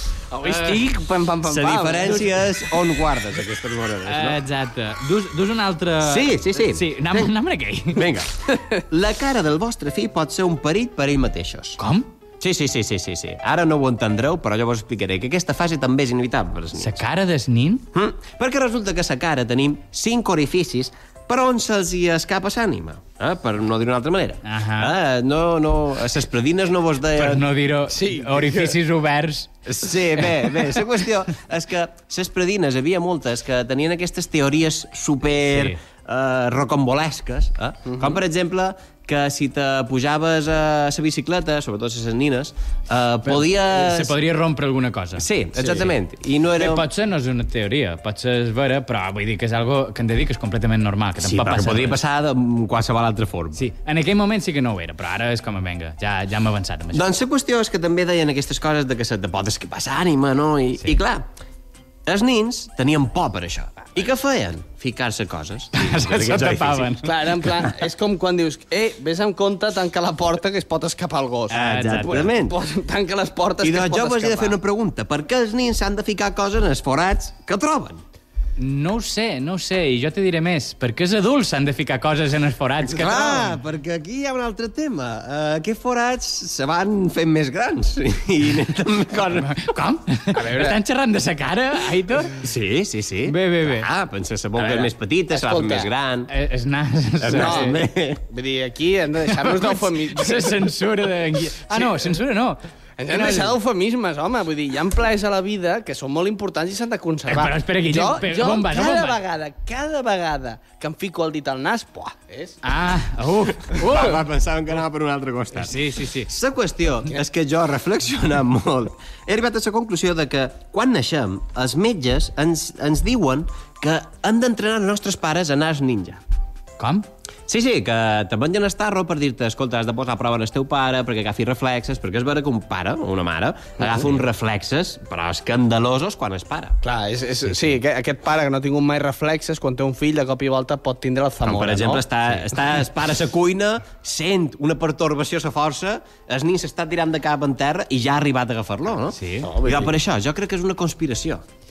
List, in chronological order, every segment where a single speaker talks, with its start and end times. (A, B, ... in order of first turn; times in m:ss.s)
0:00.3-0:02.3 A
0:00.4-0:00.9 B
0:01.4-0:04.4 C
0:04.1-0:08.1 B
0:06.0-0:07.3 C
0:08.0-0:11.8 C
0:11.8-0:12.1 B
0:12.4-0:17.0 C
0:16.8-0:17.9 B
0:17.9-0:27.4 C
0:24.5-0:24.9 B
0:27.2-0:29.6 B
0:27.9-0:28.7 A
0:29.7-0:44.1 C
0:30.2-0:30.8 B
0:35.5-0:35.8 B
0:37.9-0:38.2 A
0:43.2-0:45.9 B
0:45.2-0:46.9 C
0:46.6-0:52.0 B
0:51.2-0:53.6 C
0:53.6-0:57.0 B
0:56.9-1:01.3 C
1:02.1-1:06.9 C
1:05.8-1:07.6 B
1:07.0-1:14.6 A
1:11.5-1:12.4 B
1:11.5-1:12.6 C
1:13.6-1:18.0 C
1:18.6-1:23.6 B
1:22.8-1:29.6 C
1:29.4-1:32.4 B
1:30.3-1:30.8 A
1:32.4-1:36.3 C
1:33.3-1:33.9 B
1:34.6-1:35.9 A
1:36.3-1:37.8 B
1:37.2-1:38.2 C
1:37.4-1:37.8 A
1:38.3-1:40.6 A
1:39.4-1:42.6 B
1:41.8-1:42.1 A
1:43.0-1:52.6 A
1:43.1-1:43.6 B
1:47.3-1:49.2 B
1:52.6-1:54.2 B
1:53.7-1:55.8 C
1:55.5-1:56.3 B
1:56.3-2:06.2 C
2:06.8-2:07.1 B
2:07.5-2:16.8 C
2:16.8-2:22.0 A
2:17.4-2:17.7 C
2:21.4-2:31.4 C
2:29.1-2:29.5 B
2:29.4-2:29.9 A